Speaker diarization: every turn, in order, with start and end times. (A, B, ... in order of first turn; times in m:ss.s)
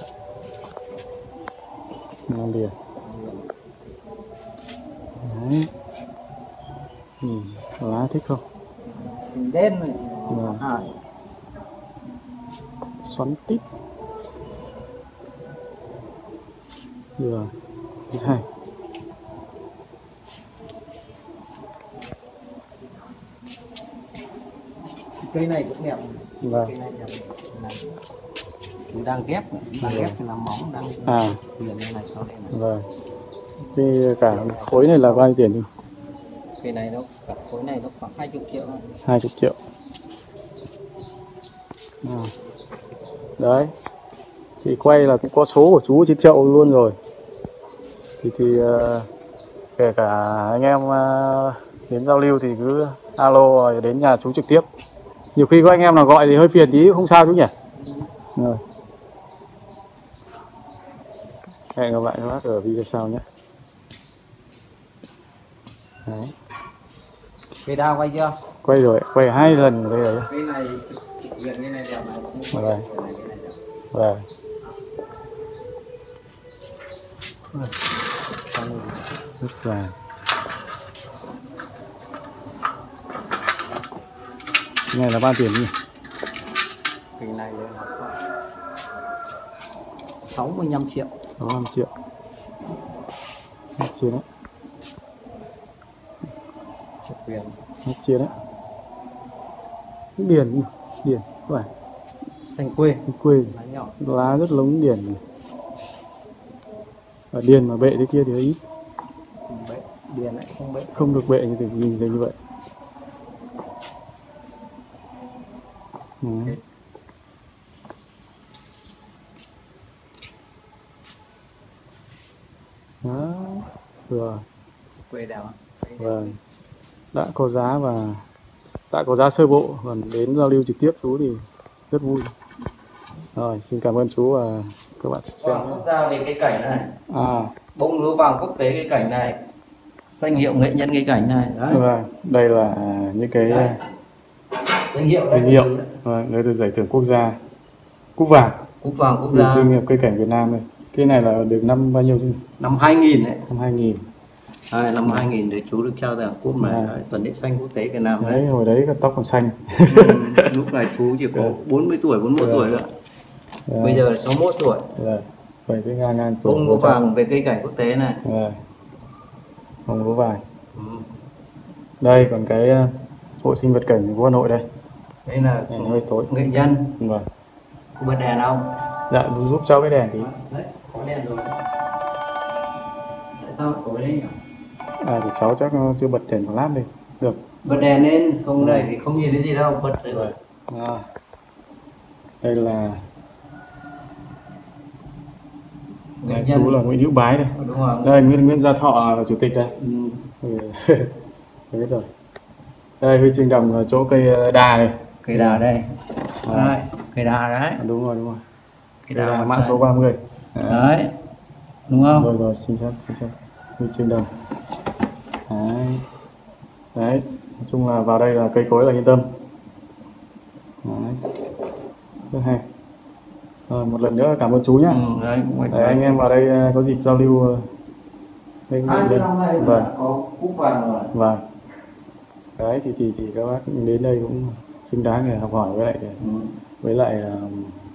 0:02.3-0:02.7 A
0:03.0-0:03.5 B
0:05.2-0:05.7 A
0:07.2-0:08.4 A
0:09.0-0:11.0 B
0:10.3-0:10.6 A
0:13.0-0:13.6 A
0:17.2-0:17.5 A
0:18.1-0:18.4 A
0:25.2-0:28.0 B
0:26.4-0:26.7 A
0:28.9-0:32.5 B
0:29.8-0:30.2 A
0:31.0-0:31.4 A
0:32.5-0:32.8 A
0:33.7-0:35.7 A
0:34.2-0:35.3 B
0:36.6-0:38.9 B
0:39.0-0:39.6 A
0:42.0-0:42.3 A
0:43.4-0:43.7 A
0:44.6-0:47.0 A
0:48.2-0:49.1 A
0:49.8-0:54.6 A
0:55.4-0:57.5 A
0:58.4-0:58.6 A
1:01.7-1:03.2 A
1:06.0-1:06.3 A
1:07.6-1:08.4 B
1:08.6-1:10.3 A
1:10.3-1:13.6 B
1:12.5-1:12.8 A
1:13.9-1:14.2 A
1:18.5-1:19.1 B
1:19.4-1:19.9 A
1:24.9-1:25.7 A
1:27.2-1:28.2 B
1:30.2-1:31.1 B
1:31.4-1:31.9 A
1:33.8-1:34.2 A
1:37.0-1:37.6 B
1:37.8-1:38.4 A
1:40.2-1:41.7 A
1:42.4-1:44.4 B
1:43.1-1:45.2 A
1:47.3-1:48.6 A
1:49.5-1:51.2 B
1:50.9-1:52.3 A
1:56.2-1:56.6 A
2:03.0-2:04.4 A
2:04.9-2:06.4 B
2:06.0-2:06.3 A
2:07.1-2:08.2 A
2:08.9-2:12.3 A
2:13.4-2:15.8 A
2:15.4-2:16.9 B
2:17.1-2:17.5 A
2:17.7-2:19.4 B
2:20.1-2:21.8 B
2:21.7-2:23.8 A
2:23.4-2:23.8 B
2:24.9-2:25.9 B
2:25.3-2:27.4 A
2:28.2-2:28.6 A
2:28.8-2:29.7 B
2:29.3-2:32.4 A
2:32.6-2:33.4 B
2:33.5-2:34.0 A
2:34.7-2:38.4 B
2:36.6-2:36.9 A
2:38.2-2:40.5 A
2:39.9-2:42.9 B
2:42.4-2:42.7 A
2:43.7-2:44.1 A
2:43.8-2:44.9 B
2:44.9-2:47.0 A
2:46.4-2:48.2 B
2:48.2-2:48.6 A
2:49.9-2:50.4 A
2:50.7-2:51.1 B
2:52.0-2:54.6 A
2:55.2-2:56.9 B
2:55.7-2:57.2 A
2:58.0-2:58.8 B
2:59.1-3:00.3 A
3:00.2-3:01.6 B
3:03.4-3:04.3 B
3:05.0-3:07.4 A
3:07.6-3:10.3 B
3:08.6-3:08.9 A
3:10.1-3:11.1 A
3:12.4-3:13.0 A
3:16.2-3:16.8 B
3:16.3-3:19.8 A
3:17.5-3:18.2 B
3:19.8-3:20.3 B
3:20.4-3:21.1 A
3:21.7-3:22.1 A
3:23.0-3:25.6 A
3:25.2-3:26.0 B
3:26.4-3:26.8 A
3:26.5-3:27.8 B
3:27.8-3:28.4 A
3:29.1-3:29.8 B
3:29.1-3:30.9 A
3:30.7-3:31.2 B
3:31.9-3:32.3 B
3:32.1-3:34.3 A
3:35.5-3:36.0 A
3:36.9-3:39.3 A
3:40.8-3:41.2 A
3:42.3-3:42.6 A
3:43.7-3:45.0 A
3:44.9-3:46.2 B
3:45.7-3:47.7 A
3:48.7-3:49.9 A
3:48.8-3:51.1 B
3:51.1-3:51.4 A
3:52.6-3:56.2 A
3:56.2-3:56.5 B
3:56.8-3:57.8 A